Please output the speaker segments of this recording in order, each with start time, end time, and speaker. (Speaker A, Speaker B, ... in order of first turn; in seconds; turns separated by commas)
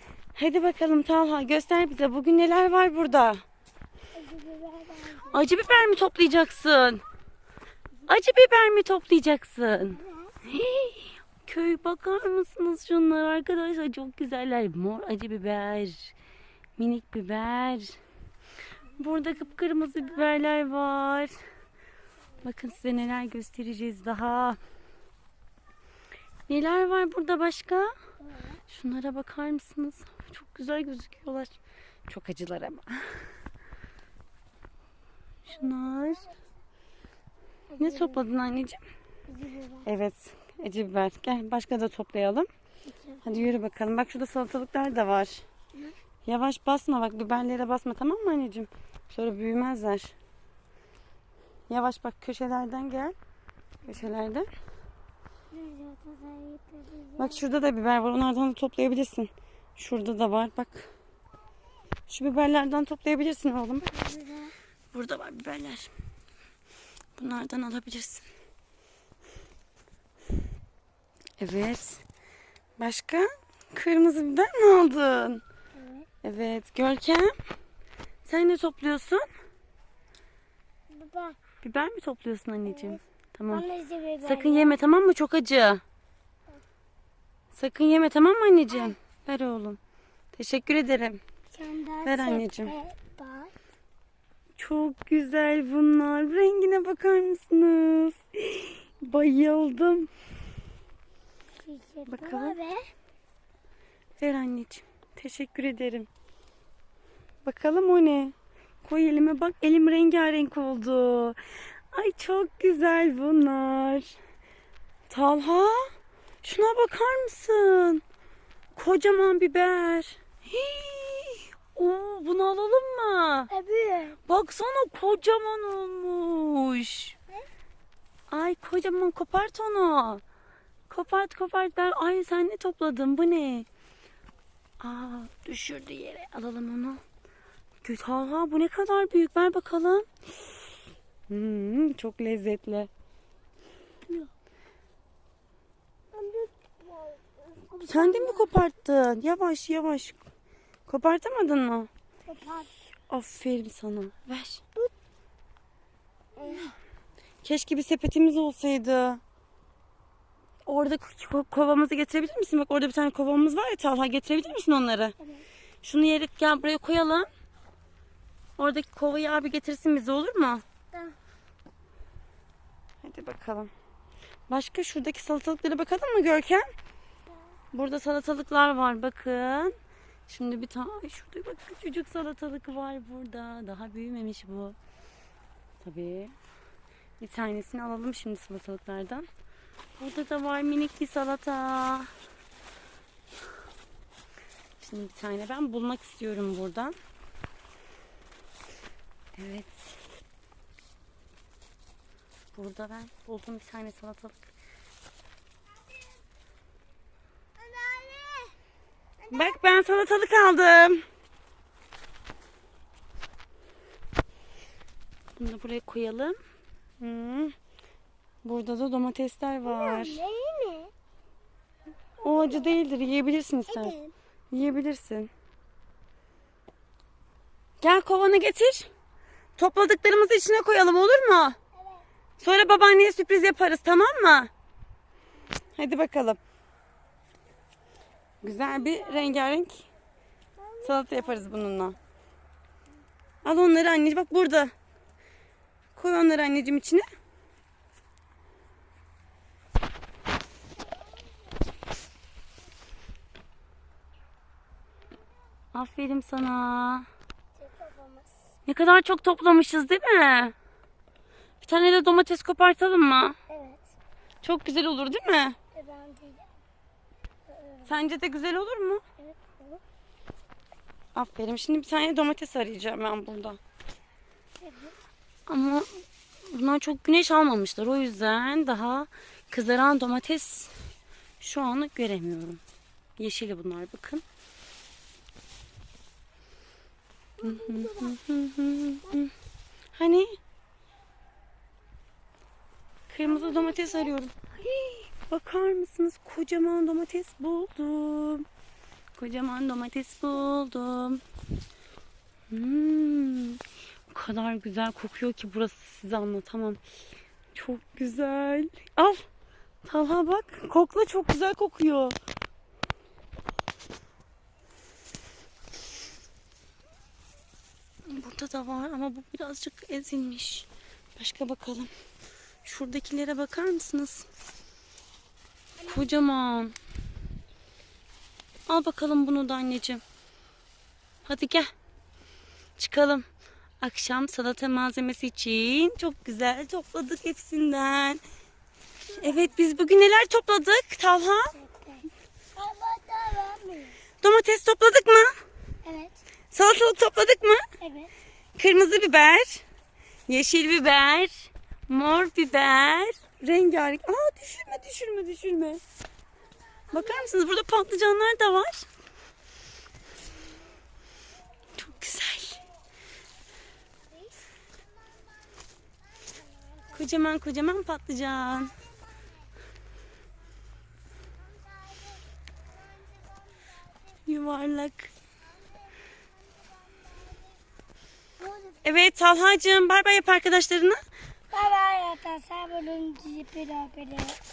Speaker A: 0.3-3.4, Speaker B: 4.1-5.4, Speaker A: 5.2-7.0, Speaker A: 8.1-16.1, Speaker B: 9.9-10.3, Speaker A: 16.8-17.9, Speaker A: 19.0-21.4, Speaker A: 22.4-24.6, Speaker A: 26.5-27.9, Speaker B: 28.2-28.6, Speaker A: 28.7-31.6, Speaker A: 32.1-33.2, Speaker A: 35.5-36.3, Speaker B: 37.7-38.2, Speaker A: 37.8-38.8, Speaker B: 39.3-39.9, Speaker A: 39.9-42.5, Speaker B: 42.9-43.5, Speaker A: 43.2-45.4, Speaker A: 46.2-50.1, Speaker A: 51.7-53.1, Speaker A: 53.8-54.5, Speaker B: 55.5-57.4, Speaker A: 57.2-60.9, Speaker A: 62.1-63.9, Speaker B: 63.8-64.5, Speaker A: 64.9-65.9, Speaker A: 67.2-68.3, Speaker A: 71.4-72.0, Speaker A: 72.8-75.4, Speaker B: 75.7-76.1, Speaker A: 76.2-77.3, Speaker A: 78.2-79.2, Speaker B: 80.9-81.4, Speaker A: 81.6-83.7, Speaker B: 82.7-84.8, Speaker A: 84.2-85.8, Speaker A: 87.5-89.8, Speaker A: 90.3-91.2, Speaker B: 91.5-93.5, Speaker A: 92.0-92.7, Speaker A: 94.6-100.1, Speaker B: 101.6-102.8, Speaker A: 102.1-102.6, Speaker A: 104.2-106.1, Speaker A: 107.4-111.4, Speaker A: 111.9-114.2, Speaker A: 115.1-118.0, Speaker A: 118.7-123.5, Speaker B: 123.5-124.2, Speaker A: 124.3-127.1, Speaker A: 128.3-130.2, Speaker A: 130.9-133.7, Speaker A: 134.8-137.0, Speaker A: 137.8-140.5, Speaker A: 141.3-142.9, Speaker B: 146.1-148.5, Speaker A: 147.9-150.2, Speaker A: 150.9-151.9, Speaker B: 152.3-152.7, Speaker A: 153.1-154.6, Speaker B: 156.3-156.7, Speaker A: 157.4-159.2, Speaker A: 160.7-165.1, Speaker B: 165.2-165.4, Speaker A: 165.8-167.3, Speaker A: 168.6-170.6, Speaker A: 173.0-173.7, Speaker A: 174.5-176.6, Speaker A: 177.7-179.7, Speaker A: 180.3-184.8, Speaker A: 185.8-186.3, Speaker A: 187.2-189.2, Speaker A: 190.0-192.1, Speaker A: 194.8-196.9, Speaker A: 199.3-199.9, Speaker A: 202.5-204.4, Speaker B: 207.6-208.5, Speaker A: 209.3-211.0, Speaker A: 215.4-216.3, Speaker A: 217.0-217.5, Speaker A: 218.4-220.2, Speaker B: 219.6-220.9, Speaker A: 222.2-223.9, Speaker B: 222.2-222.7, Speaker B: 223.7-224.1, Speaker A: 224.5-225.3, Speaker A: 227.8-228.9, Speaker A: 229.6-231.6, Speaker A: 232.4-234.5, Speaker A: 235.8-236.4, Speaker A: 238.4-239.9, Speaker B: 238.6-239.4, Speaker B: 240.6-241.5, Speaker A: 240.8-242.0, Speaker A: 243.4-244.7, Speaker A: 245.9-247.0, Speaker A: 255.7-257.1, Speaker B: 257.6-258.5, Speaker A: 258.6-260.5, Speaker A: 261.6-263.4, Speaker B: 263.5-263.9, Speaker A: 264.4-265.6, Speaker B: 265.7-266.5, Speaker B: 267.5-267.9, Speaker A: 267.9-269.0, Speaker B: 269.2-269.8, Speaker A: 271.1-273.6, Speaker B: 274.6-274.9, Speaker A: 275.5-275.9, Speaker A: 276.5-280.7, Speaker A: 281.4-282.6, Speaker A: 283.2-284.2, Speaker B: 287.4-288.2, Speaker A: 287.4-289.3, Speaker A: 289.9-290.4, Speaker A: 293.1-298.4, Speaker B: 293.3-294.1, Speaker A: 299.1-301.2, Speaker A: 302.5-306.8, Speaker A: 307.5-309.3, Speaker A: 309.8-312.1, Speaker A: 318.1-321.9, Speaker A: 322.6-324.3, Speaker A: 325.8-326.7, Speaker A: 328.7-330.0, Speaker A: 331.2-331.7, Speaker A: 332.8-333.2, Speaker A: 333.8-338.2, Speaker A: 339.2-341.5, Speaker B: 341.5-344.0, Speaker A: 344.2-345.3, Speaker B: 345.8-346.2, Speaker A: 346.5-347.6, Speaker B: 347.8-348.1, Speaker A: 348.6-349.6, Speaker A: 350.3-355.8, Speaker A: 356.9-358.9, Speaker B: 356.9-357.3, Speaker A: 361.8-362.6, Speaker B: 366.3-366.9, Speaker A: 366.9-368.8, Speaker B: 371.6-372.2, Speaker A: 374.2-375.1, Speaker B: 376.6-377.5, Speaker B: 378.4-378.8, Speaker A: 378.8-381.0, Speaker B: 381.5-384.4